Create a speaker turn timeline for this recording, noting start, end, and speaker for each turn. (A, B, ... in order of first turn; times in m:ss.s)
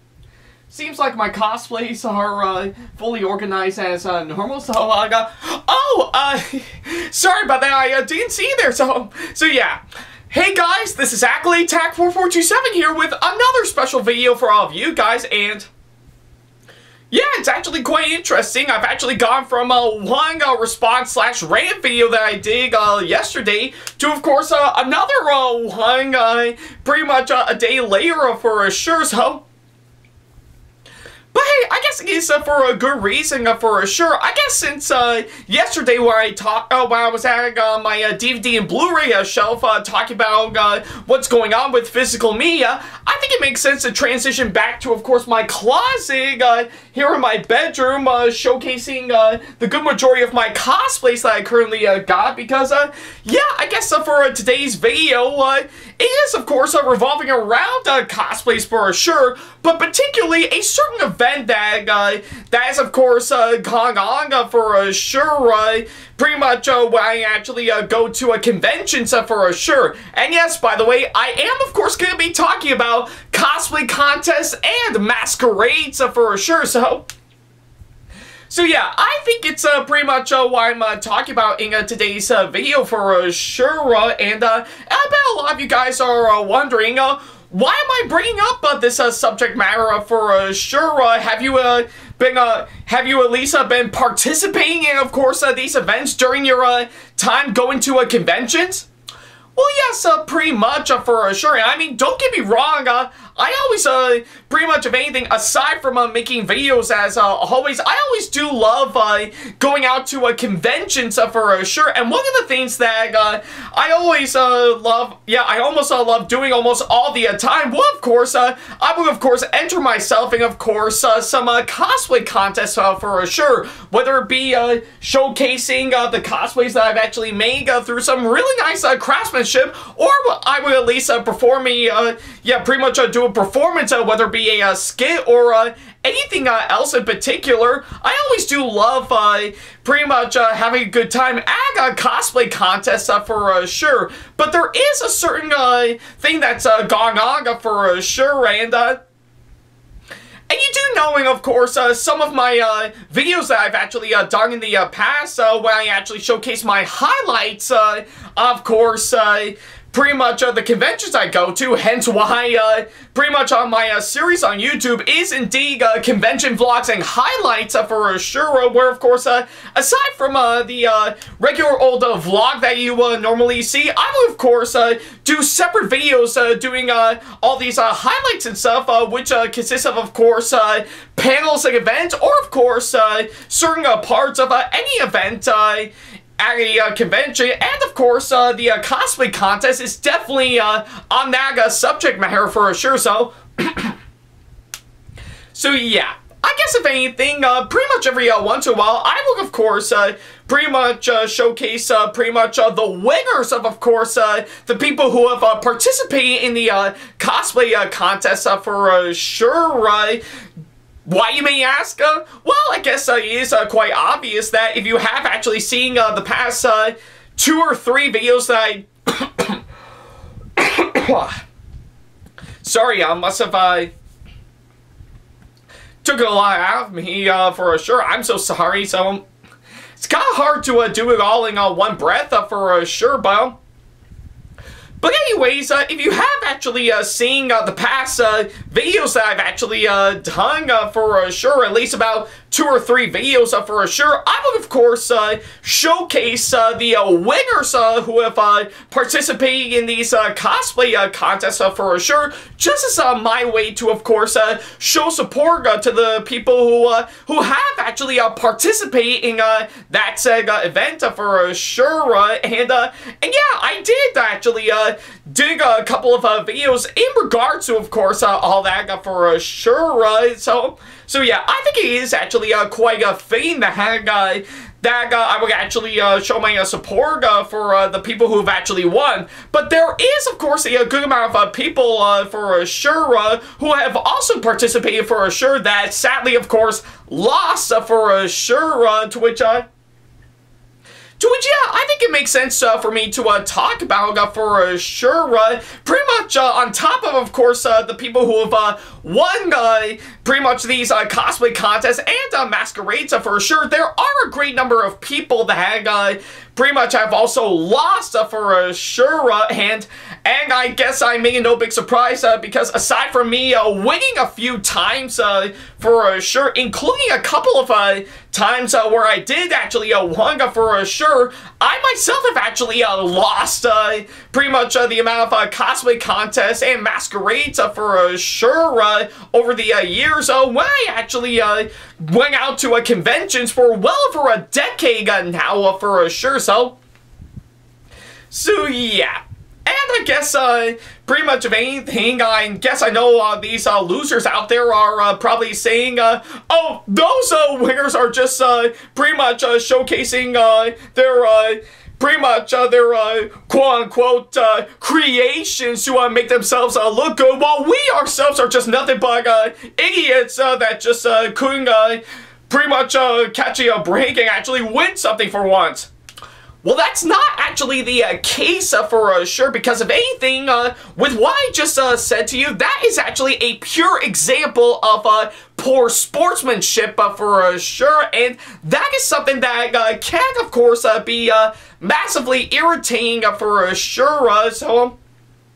0:00.7-0:15.7 A
0:17.1-0:29.4 A
0:31.3-1:17.1 A
1:18.5-1:38.9 A
1:39.6-2:29.0 A
2:30.5-3:13.9 A
3:15.5-3:30.2 A
3:31.1-3:39.6 A
3:40.6-3:41.4 A
3:42.6-3:43.9 A
3:46.0-3:49.2 A
3:50.0-3:53.6 A
3:55.0-4:49.7 A
4:51.2-5:36.8 A
5:38.3-6:05.9 A
6:06.6-6:25.0 A